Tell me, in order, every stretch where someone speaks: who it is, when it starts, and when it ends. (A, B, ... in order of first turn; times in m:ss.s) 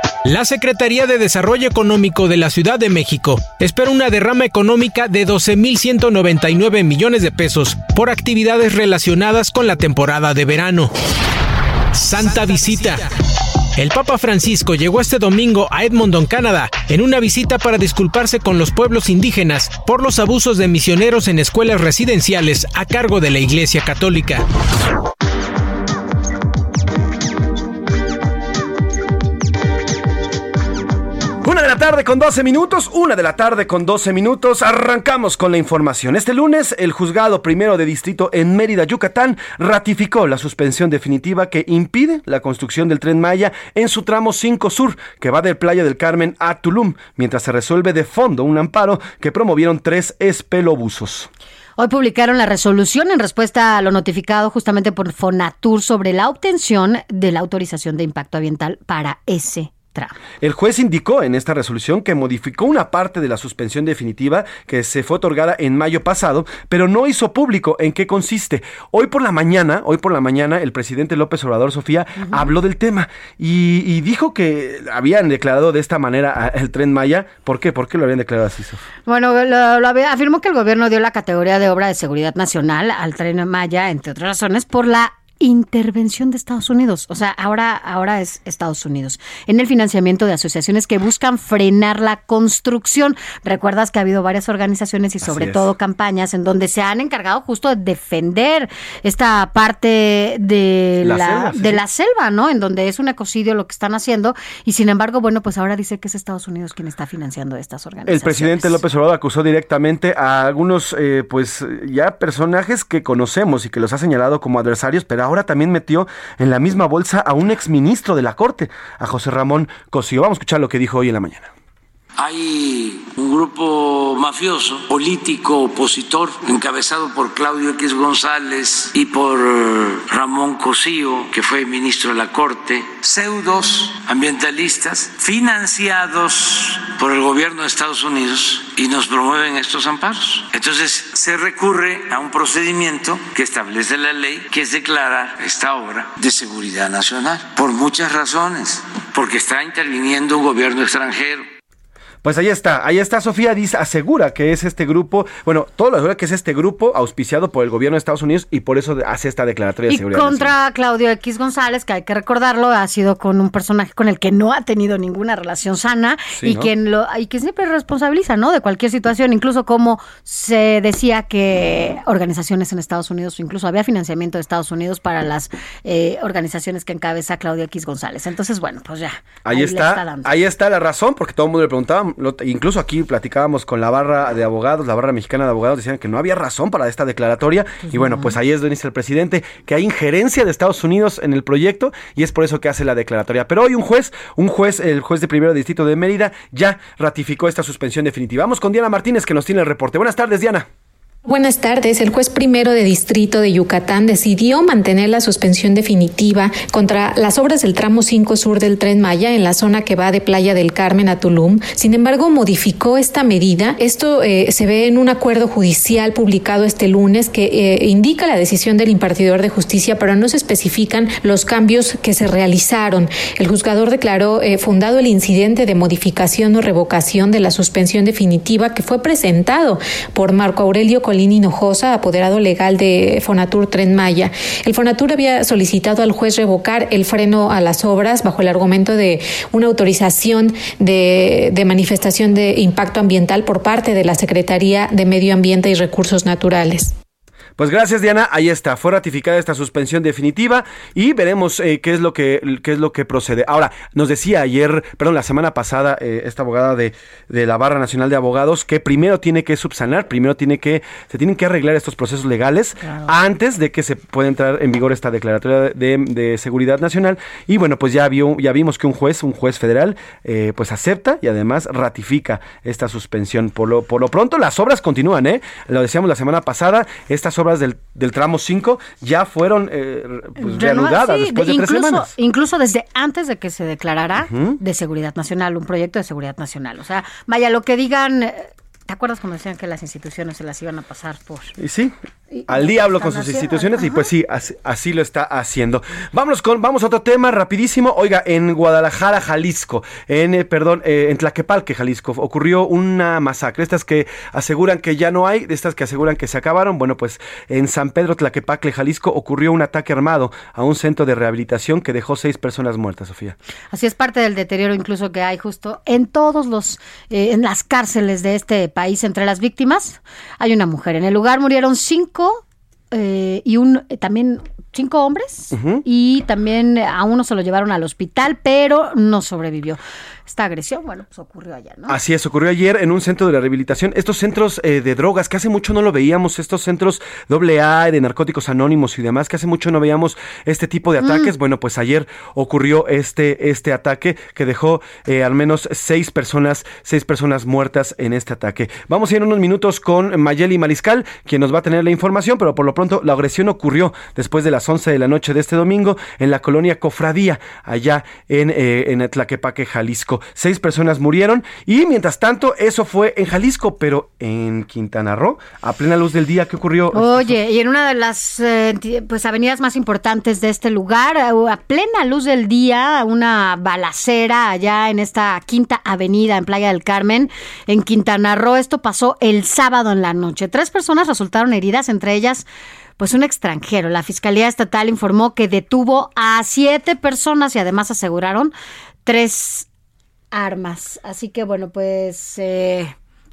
0:00.2-0:10.9 A
0:11.9-0:13.1 A
0:13.8-0:24.4 A
0:31.4-0:51.3 B
0:51.8-1:00.2 C
1:00.4-1:18.8 B
1:12.2-1:12.5 C
1:19.1-1:48.8 C
1:35.2-1:35.7 B
1:41.0-1:41.8 B
1:48.1-2:01.5 B
2:02.2-2:31.5 D
2:32.2-2:40.5 B
2:39.9-3:00.3 C
2:46.4-2:46.7 B
2:59.4-3:20.7 B
3:07.9-3:08.4 C
3:21.3-4:06.9 E
4:07.6-4:42.1 B
4:22.8-4:23.1 C
4:40.4-4:51.6 C
4:44.2-4:44.6 B
4:51.6-4:51.9 B
4:52.3-4:54.1 C
4:52.5-5:13.4 B
5:13.7-5:32.0 C
5:25.5-5:25.8 B
5:31.9-6:07.4 B
5:41.0-5:41.3 C
6:07.0-6:22.5 C
6:23.0-6:28.5 C
6:29.0-6:29.7 C
6:30.3-6:32.9 C